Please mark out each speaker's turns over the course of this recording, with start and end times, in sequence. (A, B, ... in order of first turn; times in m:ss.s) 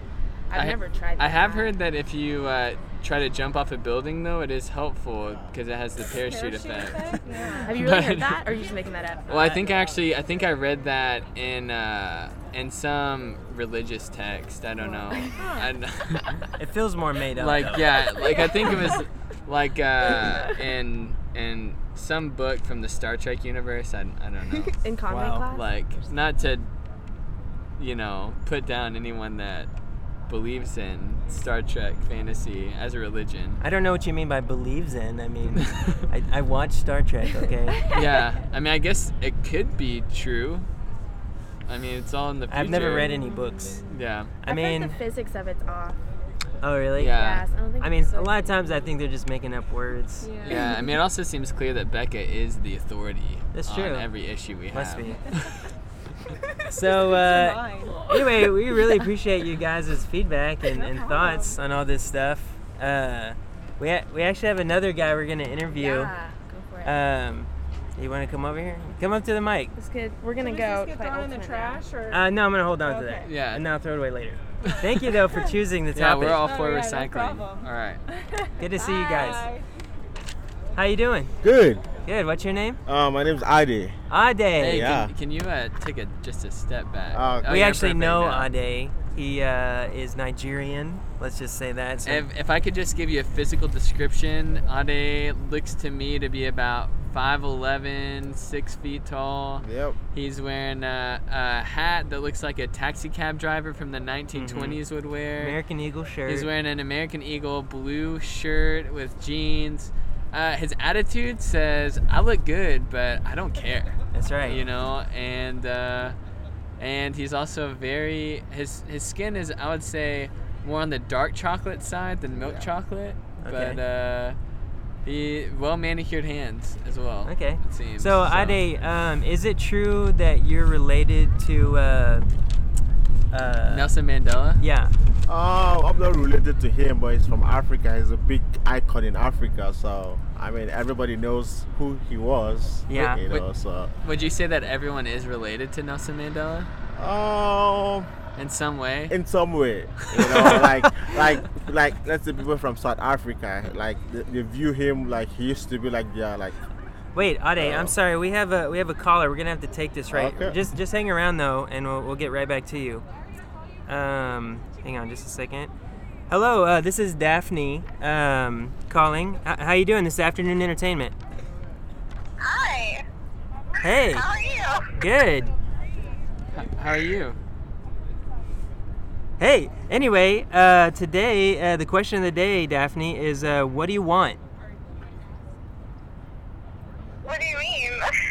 0:00.5-0:01.7 A
0:00.5-0:08.3 B
0:06.2-0:07.8 C
0:07.6-0:09.6 A
0:09.3-0:16.5 B
0:14.8-0:15.4 A
0:15.4-0:15.7 C
0:16.6-0:18.0 D
0:17.4-0:24.8 B
0:24.6-0:25.8 A
0:25.1-0:25.4 D
0:25.5-0:26.7 B
0:27.8-0:29.7 B
0:30.3-0:33.6 B
0:33.6-0:37.8 D
0:35.6-0:36.0 B
0:37.9-0:40.7 B
0:41.7-0:43.1 B
0:42.5-0:43.8 D
0:43.9-0:44.3 B
0:44.4-0:45.0 D
0:44.5-0:46.0 A
0:46.6-0:47.2 D
0:47.0-0:47.4 B
0:47.1-0:48.6 A
0:47.8-0:50.3 D
0:50.2-0:50.8 C
0:50.4-0:55.6 B
0:53.5-0:54.1 D
0:54.7-0:55.3 D
0:56.7-1:06.1 D
0:56.7-0:59.1 C
1:00.7-1:01.6 C
1:05.7-1:07.0 A
1:06.8-1:09.7 D
1:09.8-1:11.8 A
1:10.4-1:13.3 C
1:12.1-1:16.6 D
1:13.2-1:13.6 B
1:14.7-1:15.1 B
1:15.9-1:18.0 B
1:16.4-1:19.7 C
1:18.6-1:19.5 D
1:20.8-1:21.4 D
1:21.4-1:21.9 E
1:22.0-1:22.8 D
1:22.9-1:24.0 E
1:24.1-1:24.9 D
1:24.6-1:28.5 B
1:24.6-1:25.1 E
1:27.1-1:27.5 E
1:27.4-1:32.3 D
1:32.0-1:45.6 B
1:39.6-1:40.0 E
1:44.3-1:44.8 D
1:45.4-1:46.5 D
1:46.3-1:56.2 B
1:54.1-1:54.7 D
1:56.8-2:04.4 B
2:02.4-2:02.7 E
2:03.4-2:03.8 D
2:05.0-2:08.6 B
2:07.2-2:12.3 D
2:13.3-2:13.9 D
2:13.7-2:14.6 B
2:14.6-2:15.0 D
2:15.3-2:23.9 E
2:22.9-2:23.2 D
2:24.0-2:26.7 B
2:27.0-2:28.1 E
2:28.4-2:29.2 B
2:29.1-2:36.6 E
2:30.2-2:30.6 B
2:37.2-2:43.0 D
2:37.6-2:38.0 E
2:40.1-2:40.6 E
2:43.9-2:45.7 D
2:46.3-2:51.2 D
2:52.4-2:53.0 F
2:53.8-2:54.3 D
2:54.0-2:54.9 F
2:55.0-2:55.5 D
2:56.5-2:57.4 B
2:59.4-3:04.4 D
3:07.2-3:08.1 F